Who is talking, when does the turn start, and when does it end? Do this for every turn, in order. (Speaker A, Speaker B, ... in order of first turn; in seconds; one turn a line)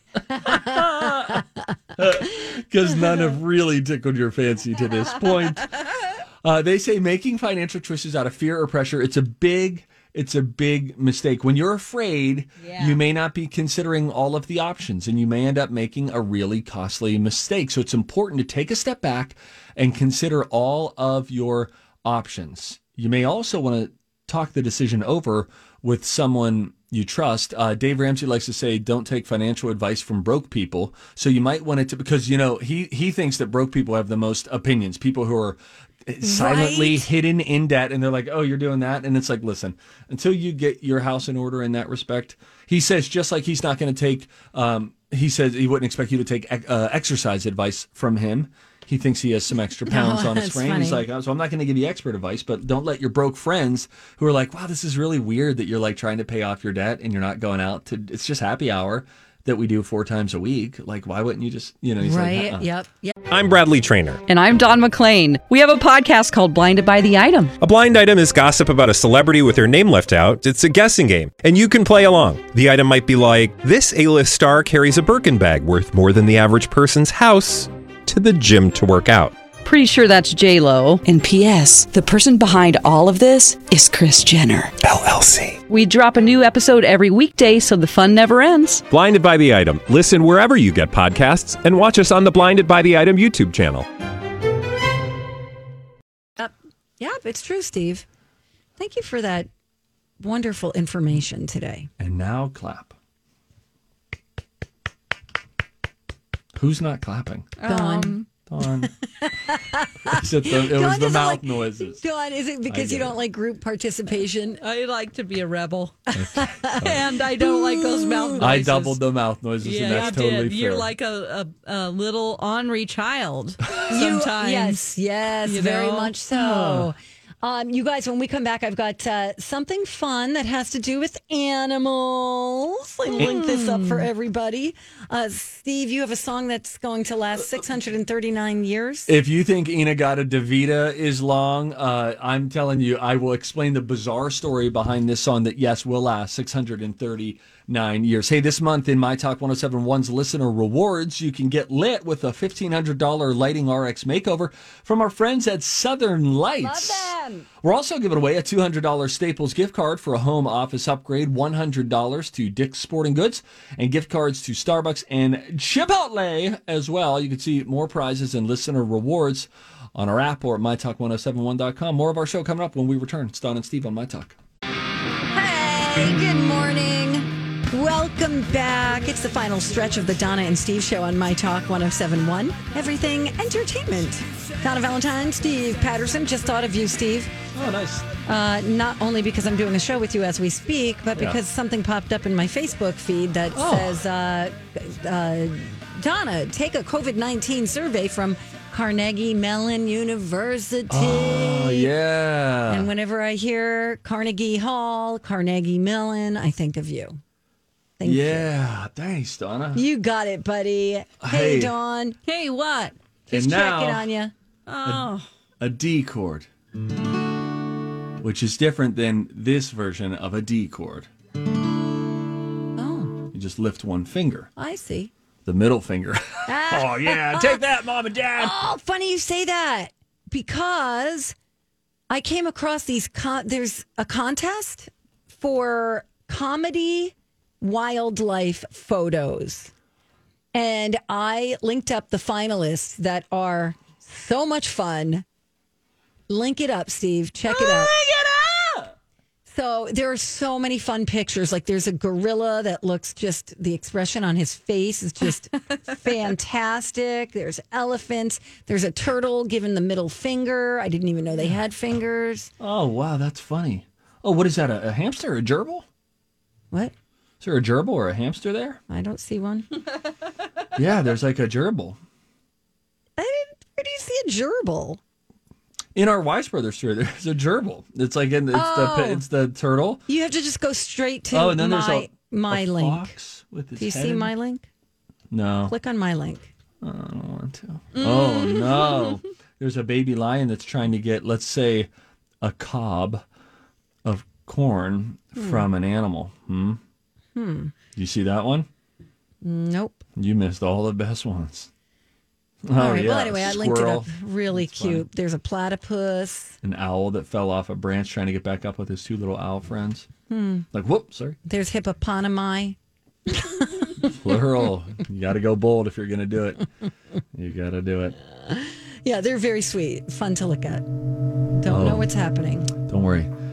Speaker A: 0.4-1.4
Speaker A: 1.9-5.8
Speaker A: 6.4-62.7
Speaker B: 12.6-13.0
Speaker C: 36.2-37.1
Speaker C: 49.9-51.0
Speaker C: 62.0-63.1
Speaker D: 63.3-64.2
Speaker E: 64.3-67.5
Speaker D: 67.6-79.3
Speaker E: 79.6-84.7
Speaker D: 84.8-85.6
Speaker E: 85.7-88.8
Speaker D: 88.9-93.8
Speaker C: 96.4-98.0
Speaker C: 98.8-99.5
Speaker C: 100.2-101.9
Speaker A: 102.0-102.9
Speaker A: 106.5-107.5
Speaker B: 107.6-108.3
Speaker C: 107.6-108.2
Speaker A: 108.5-108.9
Speaker C: 109.2-114.6
Speaker A: 110.1-112.0
Speaker A: 112.7-113.2
Speaker B: 114.6-116.0
Speaker C: 116.1-116.8
Speaker A: 116.2-117.0
Speaker B: 116.8-119.0
Speaker C: 117.3-118.5
Speaker A: 118.4-120.9
Speaker B: 119.6-124.9
Speaker C: 119.9-120.2
Speaker C: 123.9-139.1
Speaker B: 125.4-126.8
Speaker A: 126.6-126.8
Speaker B: 133.1-134.1
Speaker A: 139.1-157.1
Speaker C: 156.6-157.5
Speaker A: 157.6-174.3
Speaker C: 175.3-187.3
Speaker A: 187.5-188.1
Speaker C: 188.2-201.9
Speaker A: 191.1-191.4
Speaker A: 193.5-194.0
Speaker A: 200.9-202.9
Speaker C: 202.7-207.2
Speaker C: 208.0-208.5
Speaker A: 208.0-209.8
Speaker C: 209.7-212.2
Speaker A: 211.2-211.7
Speaker B: 212.2-212.9
Speaker A: 213.3-214.1
Speaker C: 213.3-214.3
Speaker B: 214.7-215.3
Speaker A: 215.6-216.5
Speaker A: 218.2-221.1
Speaker C: 222.8-223.2
Speaker A: 223.3-224.5
Speaker C: 224.6-225.1
Speaker A: 225.4-228.6
Speaker C: 226.5-227.6
Speaker C: 228.4-231.3
Speaker C: 232.1-239.7
Speaker C: 240.5-245.2
Speaker C: 246.3-247.9
Speaker A: 247.5-248.9
Speaker C: 249.5-262.5
Speaker A: 262.6-265.9
Speaker A: 267.4-268.8
Speaker C: 268.9-269.7
Speaker A: 270.7-272.0
Speaker C: 273.2-275.0
Speaker A: 275.9-280.0
Speaker C: 278.5-279.2
Speaker C: 280.1-283.1
Speaker A: 281.3-284.3
Speaker C: 283.8-284.7
Speaker A: 285.3-285.7
Speaker C: 285.7-286.5
Speaker A: 286.8-291.9
Speaker B: 288.0-288.6
Speaker A: 292.4-293.2
Speaker A: 294.0-296.8
Speaker C: 295.4-295.6
Speaker C: 297.3-297.7
Speaker A: 297.9-298.7
Speaker C: 299.4-300.0
Speaker A: 300.1-301.7
Speaker A: 302.6-305.0
Speaker C: 302.7-306.5
Speaker A: 306.6-310.1
Speaker C: 310.3-310.6
Speaker A: 310.7-311.4
Speaker C: 311.4-312.8
Speaker C: 313.3-314.4
Speaker A: 314.1-316.7
Speaker A: 317.3-318.1
Speaker C: 318.4-320.8
Speaker C: 321.6-322.7
Speaker A: 321.7-322.1
Speaker A: 322.8-323.3